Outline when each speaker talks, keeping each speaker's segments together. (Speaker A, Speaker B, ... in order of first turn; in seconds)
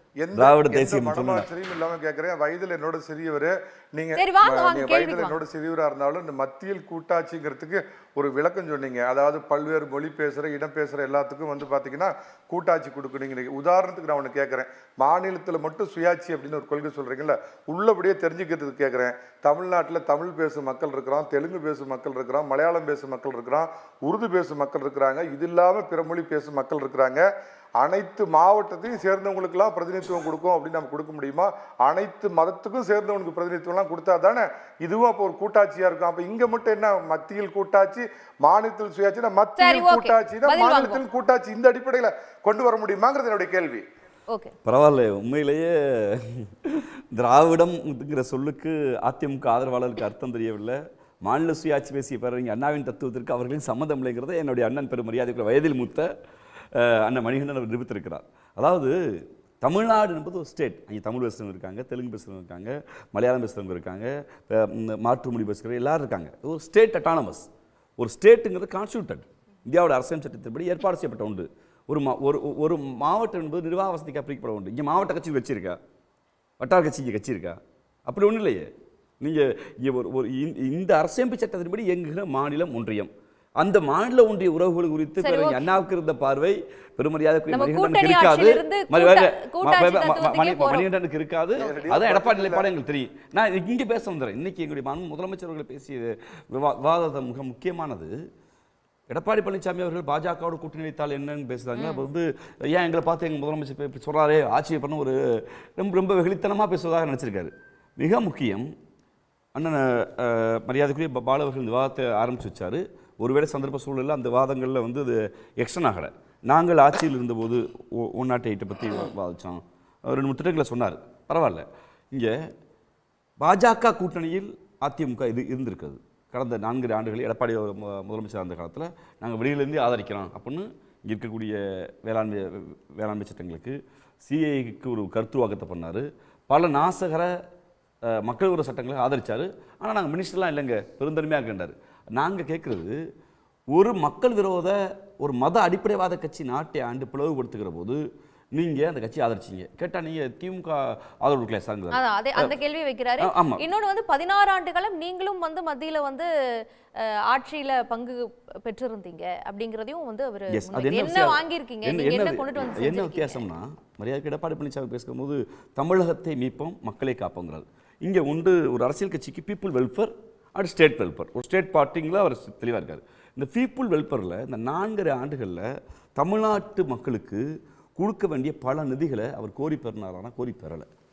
Speaker A: 0.2-27.2, 27.8-43.9, 91.6-92.7
Speaker B: 0.3-1.5, 44.6-56.1, 56.7-58.9, 59.6-67.5, 68.0-75.8, 76.6-78.7, 79.2-98.1, 99.1-108.7, 109.5-122.3, 123.4-137.3, 138.1-143.0, 143.7-148.0, 148.5-152.5, 153.2-153.6, 160.5-177.4, 178.0-180.9
Speaker C: 4.2-5.4, 39.6-41.0, 85.2-85.7, 87.5-90.9, 101.8-102.0, 151.9-156.3, 157.0-163.4